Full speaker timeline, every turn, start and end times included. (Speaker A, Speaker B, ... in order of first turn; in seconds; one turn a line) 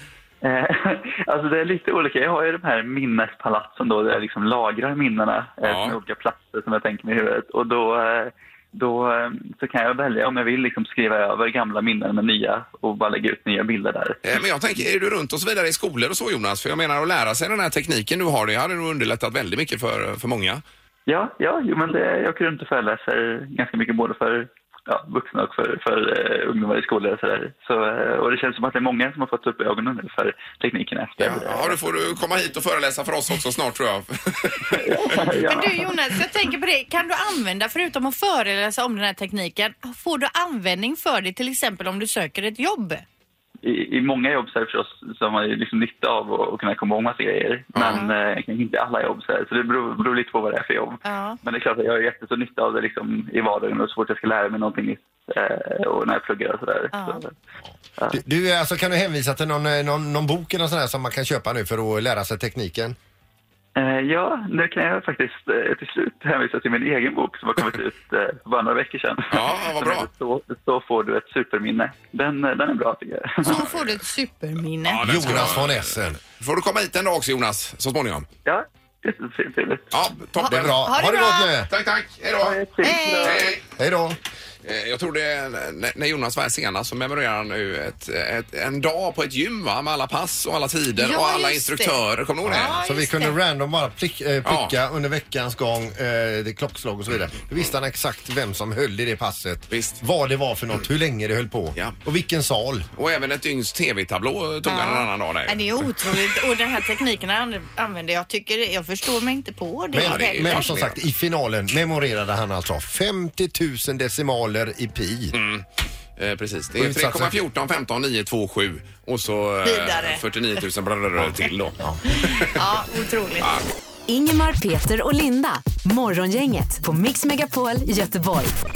Speaker A: 0.4-14.2
Speaker B: 5.6-6.0
Speaker B: 14.2-20.6
Speaker A: 21.1-31.8
Speaker B: 31.2-35.3
Speaker A: 34.7-35.9
Speaker C: 35.5-43.0
Speaker A: 43.6-57.4
Speaker B: 47.7-48.0
Speaker C: 47.9-48.1
Speaker C: 51.0-51.4
Speaker C: 56.9-57.2
Speaker D: 58.1-63.0
Speaker A: 63.8-73.6
Speaker B: 69.3-70.1
Speaker C: 73.4-75.1
Speaker B: 73.5-73.9
Speaker B: 74.9-78.3
Speaker D: 75.0-76.2
Speaker A: 78.4-79.9
Speaker B: 79.9-81.0
Speaker C: 80.4-81.5
Speaker D: 80.4-81.7
Speaker B: 81.7-82.6
Speaker A: 82.4-83.5
Speaker C: 82.8-83.4
Speaker B: 83.2-83.6
Speaker D: 83.7-84.2
Speaker B: 84.6-92.8
Speaker C: 91.0-93.4
Speaker D: 92.4-102.9
Speaker B: 94.4-94.8
Speaker B: 99.7-100.0
Speaker B: 102.9-105.8
Speaker C: 104.7-110.8
Speaker D: 109.9-115.4
Speaker B: 110.0-111.0
Speaker B: 115.3-115.6
Speaker B: 116.2-122.5
Speaker D: 116.8-117.4
Speaker C: 119.6-120.2
Speaker D: 121.2-122.0
Speaker C: 122.4-123.5
Speaker B: 123.4-123.7
Speaker E: 124.1-128.6